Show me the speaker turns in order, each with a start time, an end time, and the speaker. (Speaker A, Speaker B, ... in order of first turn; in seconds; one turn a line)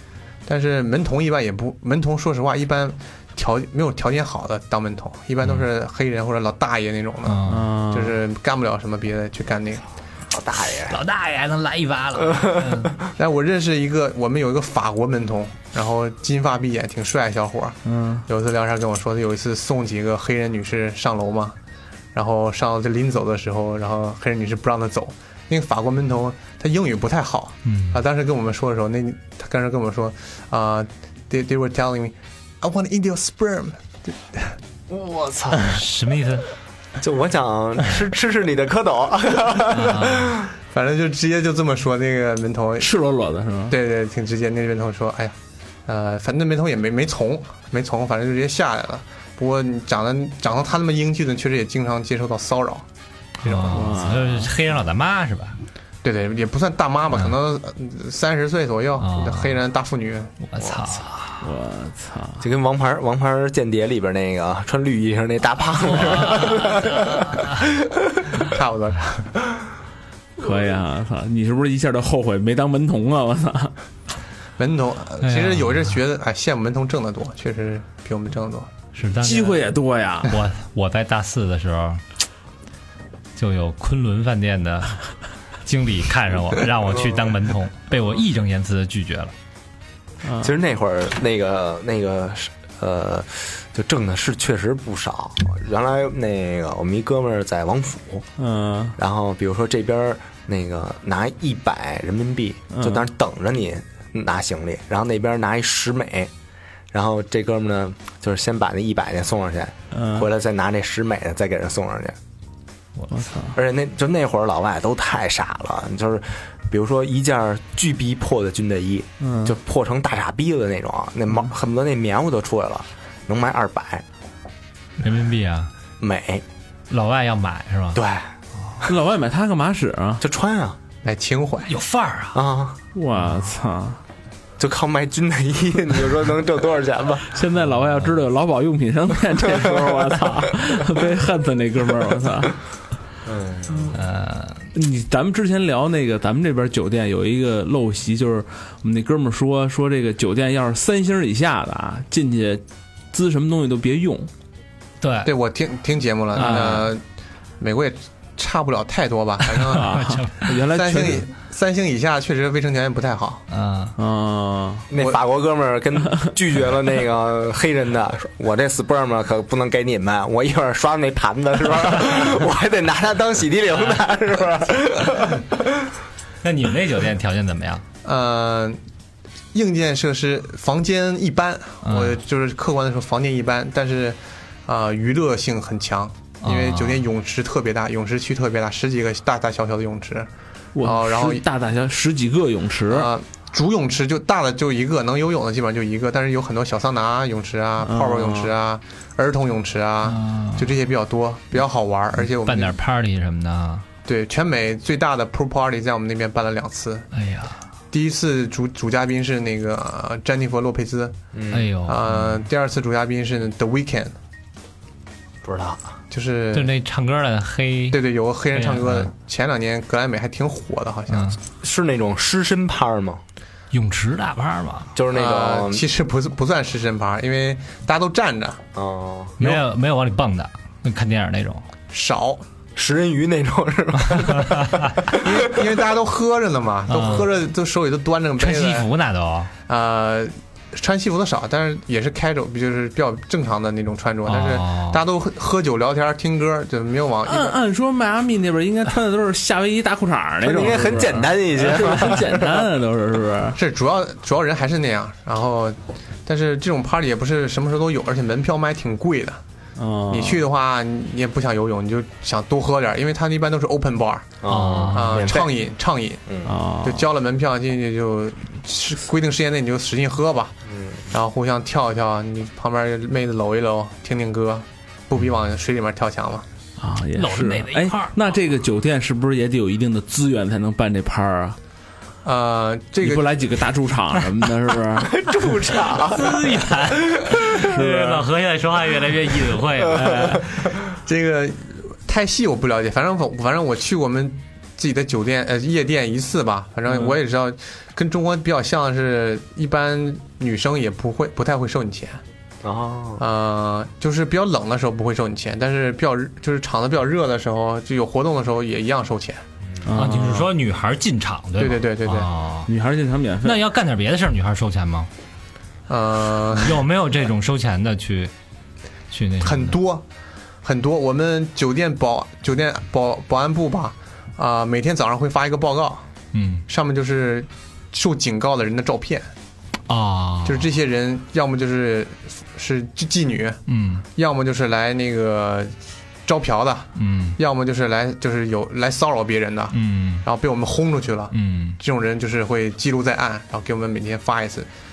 Speaker A: 0.5-9.8
Speaker B: 7.2-7.7
Speaker C: 7.5-8.2
Speaker D: 10.3-11.0
Speaker B: 10.8-12.9
Speaker D: 12.2-12.8
Speaker A: 13.2-21.6
Speaker C: 17.9-18.2
Speaker A: 22.1-34.5
Speaker B: 27.6-28.0
Speaker D: 34.9-35.8
Speaker B: 35.6-36.5
Speaker D: 37.0-40.5
Speaker B: 39.7-40.3
Speaker A: 40.7-42.9
Speaker C: 42.8-43.7
Speaker A: 43.7-45.3
Speaker A: 45.9-52.9
Speaker A: 53.4-53.9
Speaker B: 53.4-55.6
Speaker C: 53.7-54.5
Speaker A: 56.0-60.3
Speaker B: 59.0-59.6
Speaker B: 60.4-61.4
Speaker C: 61.4-62.4
Speaker D: 62.4-67.7
Speaker B: 66.3-67.4
Speaker A: 68.4-69.3
Speaker C: 70.4-73.7
Speaker A: 74.6-78.7
Speaker B: 75.2-76.0
Speaker B: 78.9-79.7
Speaker C: 79.2-80.4
Speaker B: 80.3-82.0
Speaker B: 83.4-85.0
Speaker B: 85.6-89.3
Speaker C: 90.2-90.5
Speaker D: 90.4-98.3
Speaker C: 98.4-99.0
Speaker D: 99.0-106.3
Speaker C: 102.7-103.1
Speaker D: 106.9-112.2
Speaker C: 109.9-110.3
Speaker C: 113.1-113.6
Speaker D: 113.5-124.0
Speaker C: 119.2-119.5
Speaker B: 125.0-125.7
Speaker D: 126.0-126.4
Speaker B: 126.9-128.0
Speaker D: 127.9-128.3
Speaker C: 128.8-130.2
Speaker D: 130.2-130.8
Speaker A: 131.0-131.7
Speaker B: 131.7-132.4
Speaker D: 132.3-132.8
Speaker C: 132.9-134.0
Speaker D: 134.6-137.3
Speaker C: 137.3-142.5
Speaker D: 143.3-143.9
Speaker B: 143.9-144.7
Speaker C: 144.7-154.3
Speaker B: 155.0-155.3
Speaker A: 155.2-157.0
Speaker C: 156.4-156.9
Speaker B: 156.4-156.9
Speaker A: 157.6-160.0
Speaker C: 159.7-161.2
Speaker B: 159.7-160.5
Speaker A: 160.7-163.4
Speaker B: 163.5-163.9
Speaker C: 164.0-164.9
Speaker D: 164.9-175.6
Speaker B: 176.4-177.8
Speaker A: 178.0-178.8
Speaker A: 179.5-190.3
Speaker B: 181.8-182.2
Speaker B: 186.4-187.1
Speaker C: 190.7-193.1
Speaker A: 190.8-191.4
Speaker A: 192.9-202.8
Speaker C: 197.8-198.5
Speaker B: 200.1-200.7
Speaker B: 202.4-203.9
Speaker A: 204.1-207.1
Speaker B: 207.1-207.6
Speaker A: 207.9-211.1
Speaker D: 211.3-211.7
Speaker B: 211.5-212.4
Speaker A: 211.9-214.1
Speaker D: 215.4-215.8
Speaker A: 216.1-216.7
Speaker B: 216.5-218.0
Speaker A: 217.9-221.4
Speaker B: 218.5-219.1
Speaker B: 221.1-221.4
Speaker D: 221.6-223.2
Speaker B: 223.7-224.9
Speaker D: 224.9-225.8
Speaker A: 225.1-228.6
Speaker D: 228.7-229.4
Speaker B: 229.4-231.6
Speaker A: 231.9-232.4
Speaker D: 232.8-235.3
Speaker B: 234.2-234.8
Speaker A: 235.1-238.9
Speaker B: 236.9-237.3
Speaker B: 238.4-239.5
Speaker A: 239.7-247.6
Speaker B: 244.3-245.0
Speaker C: 247.3-253.6
Speaker D: 250.4-252.6
Speaker A: 253.6-259.4
Speaker C: 259.8-260.4
Speaker A: 260.1-264.3
Speaker D: 264.4-265.5
Speaker B: 264.5-265.3
Speaker A: 264.9-266.2
Speaker D: 266.3-266.5
Speaker C: 266.4-267.1
Speaker A: 266.8-270.6
Speaker D: 270.7-271.0
Speaker A: 271.1-276.4
Speaker C: 276.8-281.6
Speaker B: 277.1-278.2
Speaker A: 282.2-283.3
Speaker C: 283.0-285.6
Speaker D: 285.0-286.4
Speaker B: 285.9-290.4
Speaker D: 287.1-287.7
Speaker C: 287.6-288.3
Speaker C: 289.9-290.4
Speaker A: 290.9-302.2
Speaker C: 296.9-297.1
Speaker D: 302.6-303.2
Speaker A: 303.2-309.4
Speaker C: 309.8-310.5
Speaker B: 309.9-312.7
Speaker A: 311.6-312.3
Speaker C: 312.7-313.6
Speaker B: 313.4-315.1
Speaker A: 315.9-316.8
Speaker B: 316.6-318.3
Speaker B: 319.1-319.8
Speaker A: 319.4-320.0
Speaker A: 320.6-326.1
Speaker B: 326.3-326.6
Speaker A: 326.7-329.3
Speaker B: 329.9-330.7
Speaker A: 330.4-333.6
Speaker B: 333.7-334.1
Speaker A: 334.1-335.7
Speaker A: 336.3-344.7
Speaker B: 336.9-337.4
Speaker B: 339.7-340.2
Speaker B: 341.3-341.8